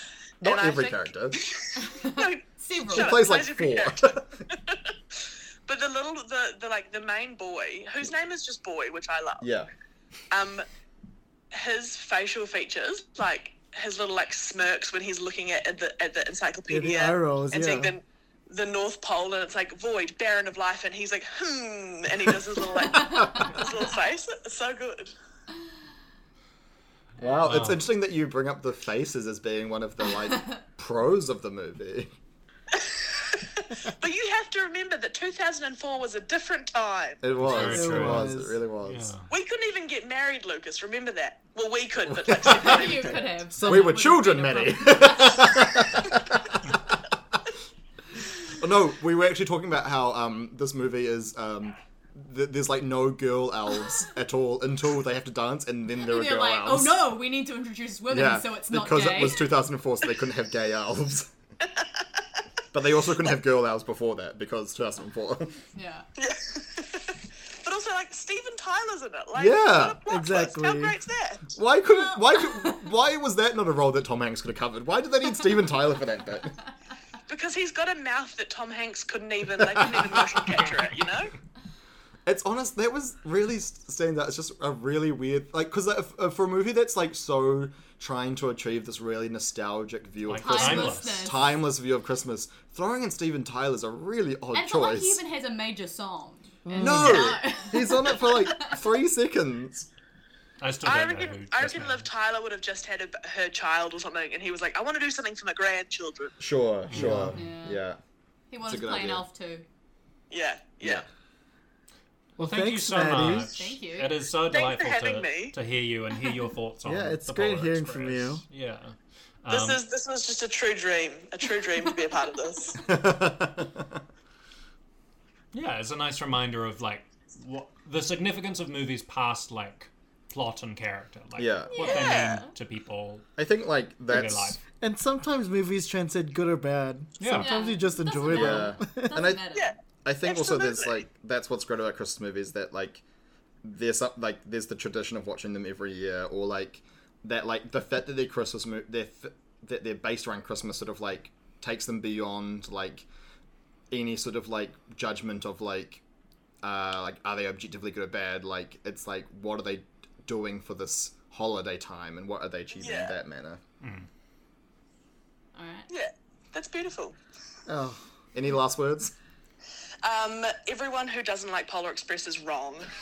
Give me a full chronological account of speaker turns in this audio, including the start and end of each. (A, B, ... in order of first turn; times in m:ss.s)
0:00.4-0:01.4 A
0:00.4-0:09.4 B
0:01.8-0:03.2 C
0:02.9-0:04.3 A
0:09.4-0:09.7 A
0:10.3-0:10.6 B
0:11.5-0:25.1 B
0:16.7-0:17.9 D
0:23.0-0:23.5 A
0:23.1-0:23.4 C
0:27.2-0:32.1 A
0:27.4-0:27.9 E
0:32.7-0:37.2 B
0:37.2-0:39.1 A
0:37.4-0:39.3 E
0:37.5-0:38.6 D
0:39.3-0:43.2 B
0:42.3-0:42.8 A
0:42.5-0:46.0 C
0:43.5-0:44.0 D
0:43.6-0:47.0 A
0:48.4-0:57.2 A
0:56.0-0:59.6 C
0:58.1-1:01.3 A
1:02.7-1:05.6 A
1:05.7-1:06.1 C
1:06.2-1:11.5 B
1:09.4-1:10.0 A
1:10.1-1:11.0 D
1:11.5-1:16.6 A
1:17.3-1:21.3 B
1:22.3-1:35.2 A
1:30.2-1:31.5 E
1:30.3-1:31.5 C
1:34.5-1:38.8 C
1:36.6-1:37.4 D
1:36.8-1:39.9 A
1:40.6-1:42.1 E
1:40.8-1:46.4 B
1:46.4-1:48.0 A
1:46.9-1:47.4 E
1:46.9-1:47.4 D
1:47.3-1:47.8 C
1:48.5-1:49.6 C
1:48.6-1:49.2 A
1:50.3-1:51.0 B
1:52.4-1:53.5 D
1:52.4-1:59.8 E
1:53.2-1:54.1 C
1:54.5-1:55.6 B
1:56.8-1:58.4 D
1:59.5-2:02.8 B
2:02.8-2:04.0 A
2:05.5-2:13.4 E
2:11.4-2:11.8 A
2:11.7-2:12.5 C
2:11.8-2:12.4 B
2:13.4-2:14.6 A
2:14.1-2:14.6 E
2:14.8-2:19.2 D
2:17.2-2:17.6 E
2:17.4-2:19.7 C
2:18.3-2:23.0 A
2:19.5-2:21.0 B
2:23.6-2:33.1 A
2:33.9-2:36.0 A
2:36.6-2:43.6 A
2:42.8-2:43.2 B
2:43.8-2:44.1 E
2:45.6-2:45.9 C
2:45.9-2:47.2 B
2:47.7-2:48.0 D
2:48.3-2:49.1 A
2:50.0-2:52.9 B